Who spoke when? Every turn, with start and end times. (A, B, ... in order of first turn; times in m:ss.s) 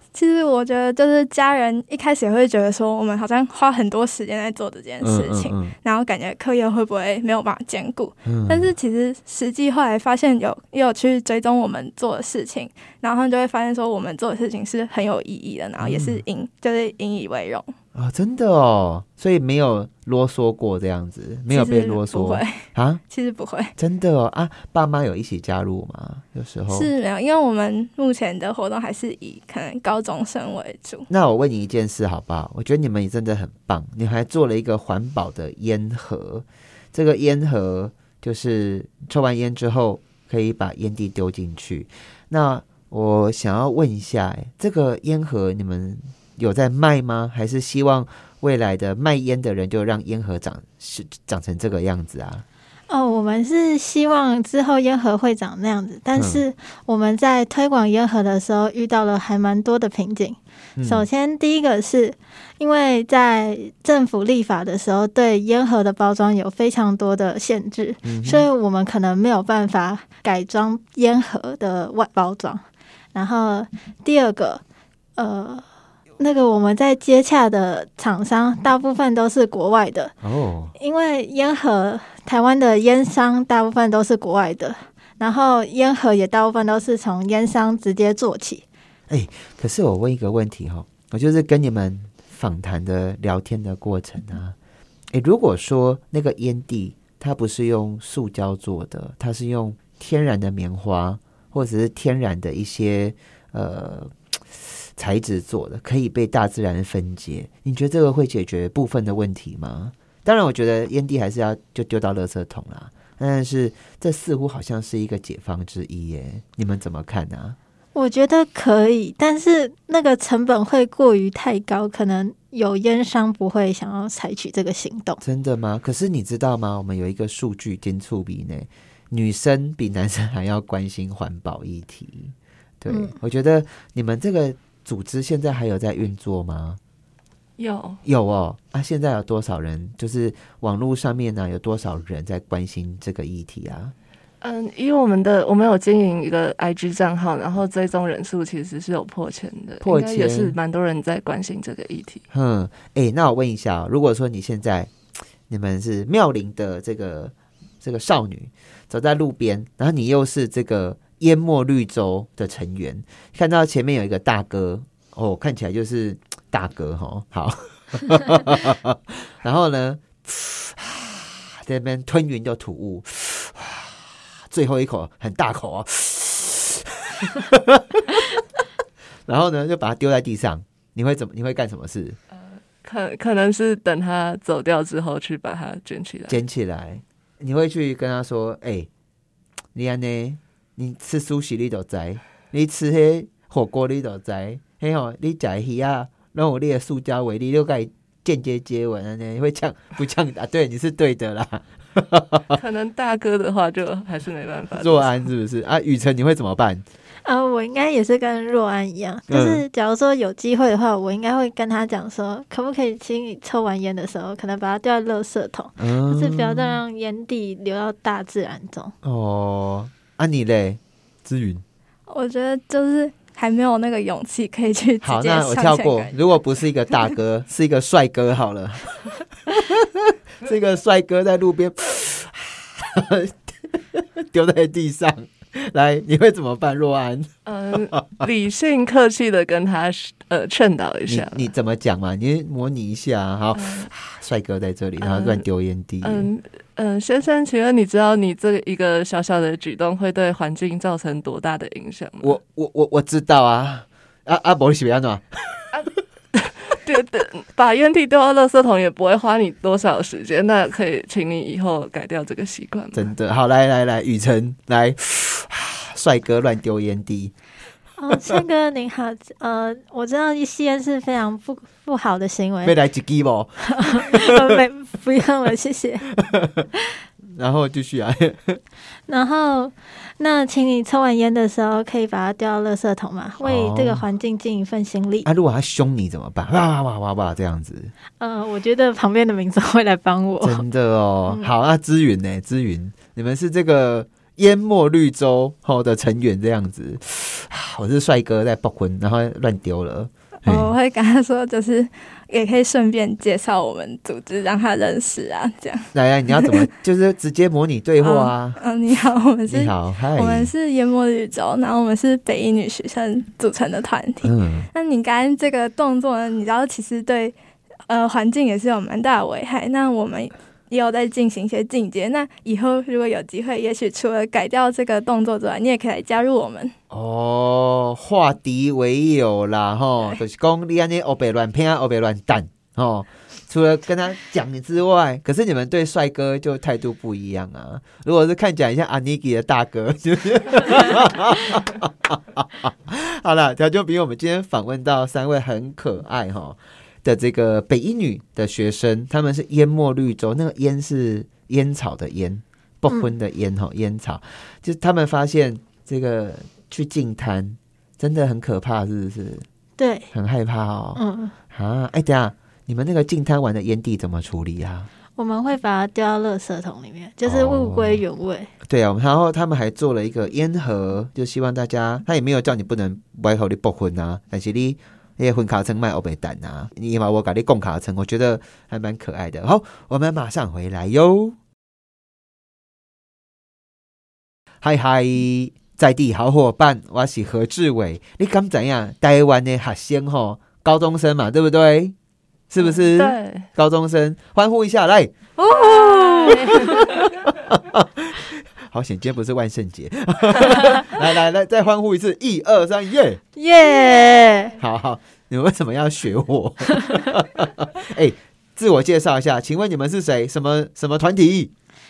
0:00.1-0:17.7 A
0:05.0-0:05.7 B
0:08.2-0:08.7 B
0:15.8-0:16.2 B
0:17.9-0:23.0 B
0:21.5-0:23.7 A
0:23.8-0:26.9 B
0:26.7-0:31.1 A
0:31.1-0:52.4 B
0:52.9-1:12.6 C
0:56.1-0:56.4 B
1:00.8-1:01.0 B
1:08.0-1:08.5 B
1:13.1-1:14.6 C
1:15.2-1:15.6 C
1:16.2-1:20.1 C
1:20.2-1:20.7 B
1:20.8-1:28.6 C
1:29.1-1:34.6 B
1:35.1-1:57.6 B
1:57.9-2:05.2 C
2:05.2-2:16.8 B
2:12.9-2:13.1 C
2:17.6-2:18.0 D
2:18.0-2:23.9 B
2:24.4-2:32.2 D
2:29.8-2:30.5 B
2:32.3-2:34.9 B
2:35.5-2:58.3 B
2:59.3-3:02.2 B
3:02.4-3:06.4 D
3:06.3-3:08.9 B
3:09.7-3:22.6 B
3:22.5-3:25.2 D
3:24.8-3:26.8 B
3:27.2-3:38.9 C
3:29.3-3:29.6 B
3:35.8-3:36.8 B
3:39.0-3:41.6 B
3:42.1-3:46.2 A
3:45.0-3:57.3 B
3:57.4-4:01.5 D
3:57.9-3:58.2 B
4:01.1-4:06.3 B
4:03.5-4:03.9 D
4:05.0-4:05.4 D
4:06.0-4:12.4 D
4:12.2-4:15.7 B
4:15.7-4:23.1 D
4:22.9-4:27.3 B
4:28.0-4:32.8 C
4:32.6-4:34.6 B
4:33.7-4:36.1 C
4:36.1-4:36.7 B
4:37.3-4:38.6 B
4:39.1-4:45.3 C
4:43.4-4:44.0 B
4:45.2-4:47.9 B
4:48.2-4:50.6 C
4:50.4-5:00.7 B
5:00.4-5:06.7 A
5:05.9-5:08.6 B
5:08.0-5:17.3 A
5:09.5-5:10.5 B
5:14.2-5:14.7 B
5:17.8-5:26.7 A
5:26.9-5:59.4 B
5:59.8-6:00.1 C
6:00.1-6:01.0 B
6:01.0-6:01.3 C
6:01.5-6:04.9 B
6:05.2-6:08.5 C
6:07.2-6:08.0 B
6:08.6-6:21.4 B
6:24.6-6:31.9 B
6:32.5-6:35.1 B
6:32.6-6:33.5 D
6:35.4-6:36.8 C
6:35.8-6:37.0 D
6:36.3-6:43.2 B
6:43.4-6:44.6 C
6:44.6-6:51.5 B